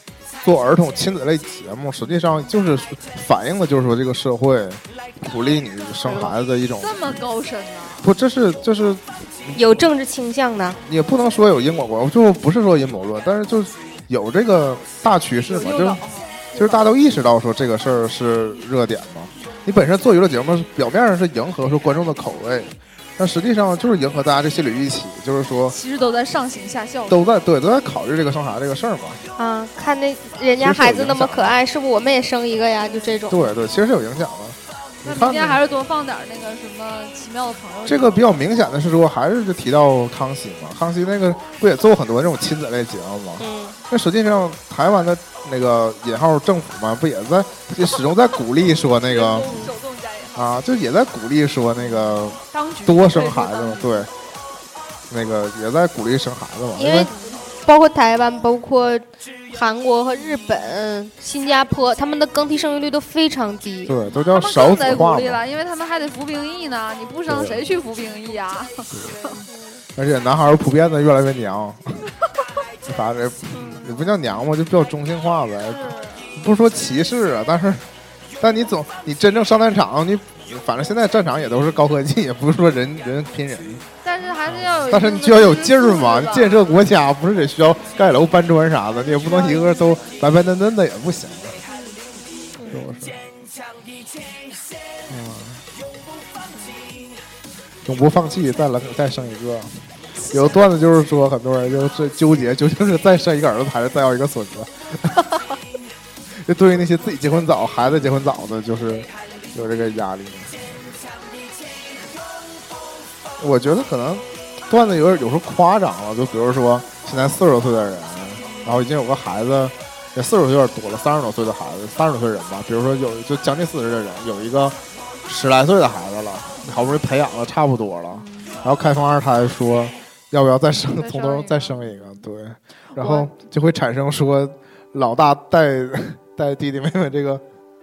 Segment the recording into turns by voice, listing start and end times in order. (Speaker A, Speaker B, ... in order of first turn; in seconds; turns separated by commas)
Speaker A: 0.4-7.0, Speaker B: 6.0-8.1, Speaker A: 8.0-9.9, Speaker C: 9.5-10.8, Speaker A: 10.8-16.0, Speaker B: 15.5-16.9, Speaker A: 16.5-25.8, Speaker B: 25.6-27.2, Speaker A: 27.1-29.2, Speaker C: 29.4-33.4, Speaker A: 30.6-31.6, Speaker B: 32.9-33.1, Speaker A: 33.3-35.6, Speaker B: 35.0-38.4, Speaker A: 37.9-49.5, Speaker C: 43.4-43.8, Speaker B: 49.0-50.5, Speaker A: 50.4-54.1, Speaker B: 51.9-54.1, Speaker A: 55.1-57.1, Speaker C: 56.8-63.9, Speaker B: 57.1-57.4, Speaker A: 63.9-65.4, Speaker B: 64.2-69.4, Speaker A: 67.3-67.6, Speaker A: 68.9-69.2, Speaker C: 69.5-69.8, Speaker A: 70.0-72.0, Speaker A: 72.8-75.8, Speaker B: 75.7-76.4, Speaker A: 76.3-77.8, Speaker A: 78.4-83.8, Speaker B: 84.0-86.6, Speaker A: 84.5-91.6, Speaker B: 89.2-89.9, Speaker A: 92.7-93.2, Speaker A: 95.1-95.6, Speaker A: 97.8-105.4, Speaker A: 106.3-110.6, Speaker A: 113.4-137.4, Speaker B: 126.6-126.8, Speaker B: 128.1-128.6, Speaker B: 130.9-131.9, Speaker B: 132.9-133.3